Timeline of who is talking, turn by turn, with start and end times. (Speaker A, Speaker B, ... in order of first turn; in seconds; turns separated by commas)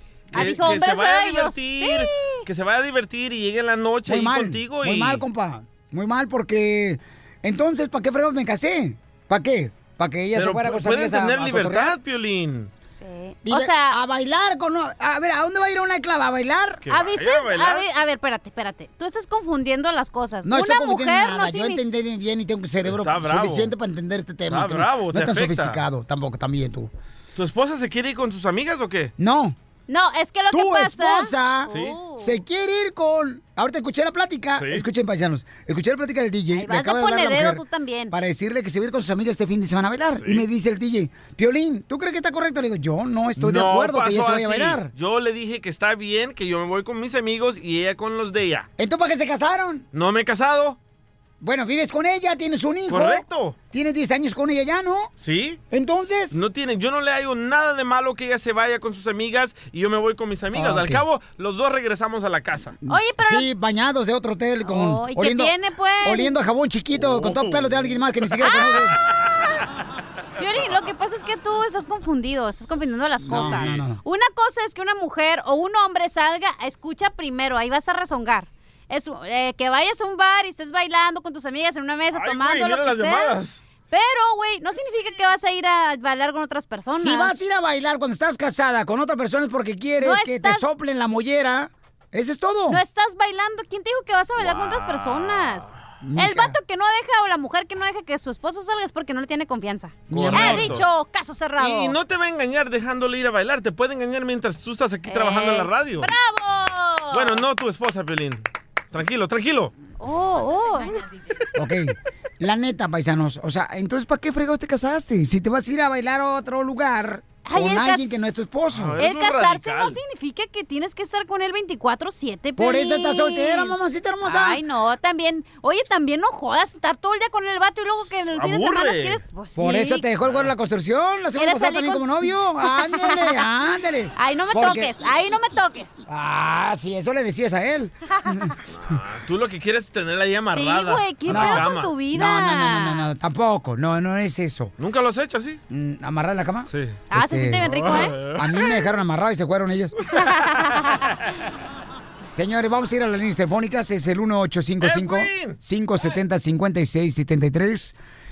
Speaker A: 0.3-0.7, Speaker B: 0.3-2.4, Speaker C: 0.3-5.2, Speaker A: 4.1-12.0, Speaker C: 10.3-12.7, Speaker B: 12.8-14.0, Speaker A: 13.4-16.8, Speaker C: 16.8-17.9, Speaker B: 16.9-21.8, Speaker A: 20.4-26.9, Speaker C: 22.9-23.7, Speaker C: 24.5-25.8, Speaker C: 27.4-29.1, Speaker A: 29.2-29.6, Speaker B: 29.9-32.4, Speaker A: 30.5-44.9, Speaker C: 31.7-32.0, Speaker C: 34.5-34.9, Speaker B: 36.5-38.1, Speaker C: 40.2-40.5, Speaker C: 43.4-48.7, Speaker A: 48.8-49.9, Speaker C: 49.9-50.8, Speaker A: 51.4-55.1, Speaker C: 52.9-53.6, Speaker C: 55.2-55.6, Speaker A: 55.7-56.4, Speaker C: 56.3-62.8, Speaker A: 60.5-61.0, Speaker A: 62.9-69.0, Speaker B: 62.9-63.5, Speaker B: 64.7-66.3, Speaker C: 67.0-67.9, Speaker B: 68.4-68.9, Speaker B: 70.4-83.4, Speaker A: 73.2-74.0, Speaker C: 73.4-73.8, Speaker C: 82.1-83.6, Speaker B: 83.9-87.4, Speaker A: 87.0-92.8, Speaker B: 90.0-90.7, Speaker B: 92.7-102.0, Speaker C: 94.4-95.5, Speaker A: 96.0-96.6, Speaker A: 100.1-100.8, Speaker C: 100.1-100.9, Speaker C: 101.6-106.1, Speaker B: 105.1-107.4, Speaker C: 107.1-109.7, Speaker B: 110.0-111.0, Speaker A: 111.5-119.0, Speaker B: 117.5-118.4, Speaker C: 118.7-120.0, Speaker B: 119.0-130.1, Speaker A: 122.6-124.6, Speaker C: 128.3-129.2, Speaker A: 129.6-135.0, Speaker B: 131.4-133.4, Speaker B: 134.2-136.0, Speaker A: 136.1-138.6, Speaker C: 138.7-141.9, Speaker B: 140.5-143.1, Speaker A: 141.3-144.7, Speaker C: 144.8-145.6, Speaker A: 145.7-149.9, Speaker C: 146.7-147.0, Speaker B: 147.1-148.2, Speaker C: 147.6-148.4, Speaker B: 150.2-150.9, Speaker A: 152.3-158.0, Speaker C: 154.8-155.6